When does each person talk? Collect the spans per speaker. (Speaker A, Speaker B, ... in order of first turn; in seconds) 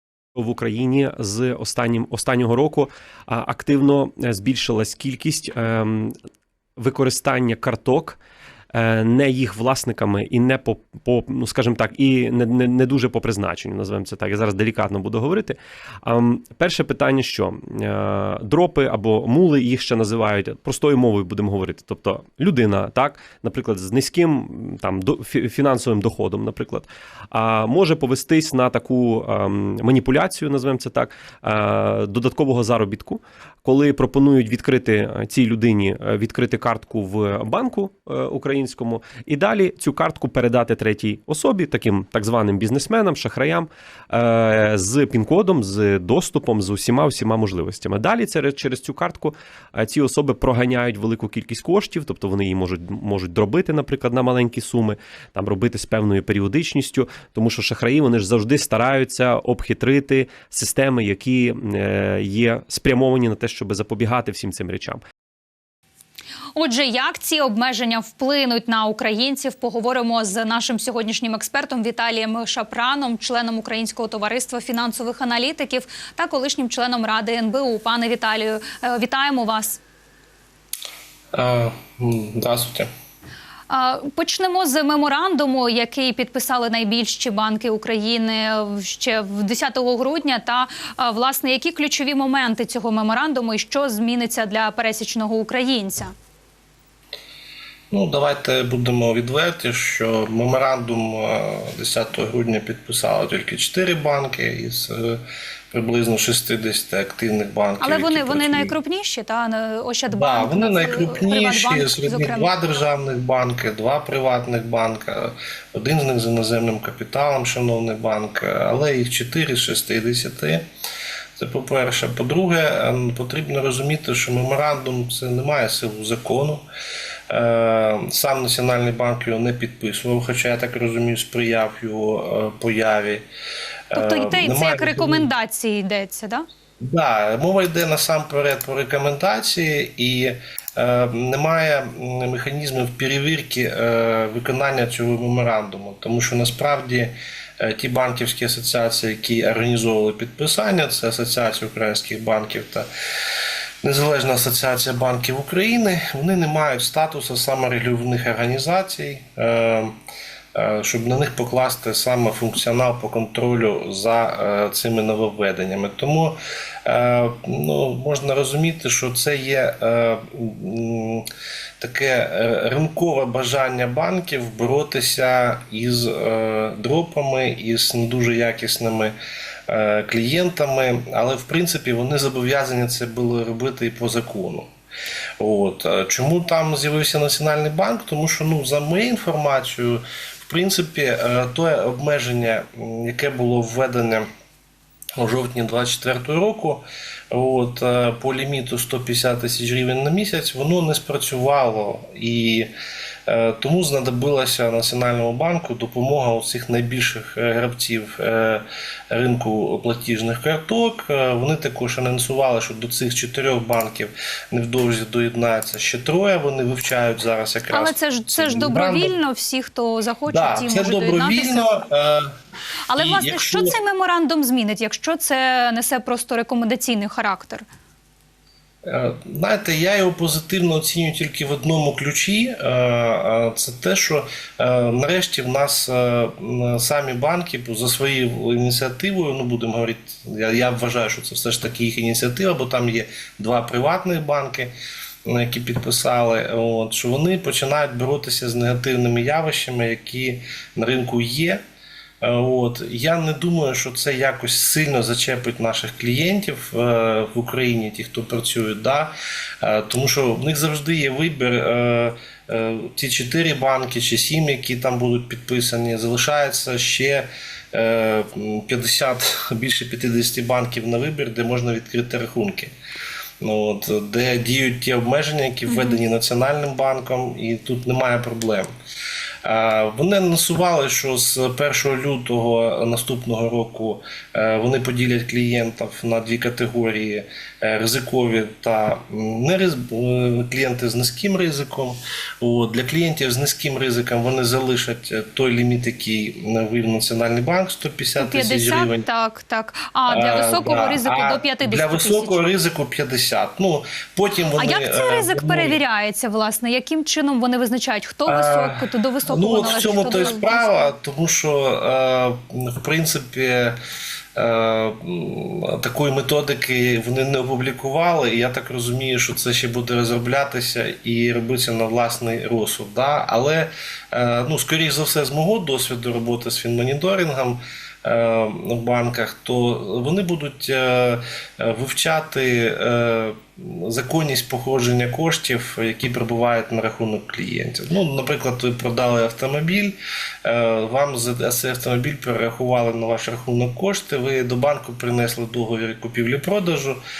Speaker A: 0.3-6.1, 6.8-8.2, 8.7-65.0
Speaker B: 66.5-79.8, 83.7-96.1, 107.8-112.5, 133.9-136.4, 217.7-221.7, 222.9-227.7, 275.7-276.0, 298.2-302.4, 304.6-310.9
Speaker C: 81.3-82.9, 97.9-108.7, 110.1-120.6, 121.4-126.6, 127.3-133.2, 133.9-135.3, 136.8-152.9, 153.8-159.9, 160.5-171.3, 171.8-179.1, 179.7-184.7, 185.4-194.3, 195.2-202.7, 203.3-219.1, 220.3-222.3, 223.0-223.8, 228.8-244.7, 245.2-251.6, 252.2-272.7, 273.4-278.7, 279.4-299.0, 300.1-305.8, 308.3-313.8, 314.4-347.0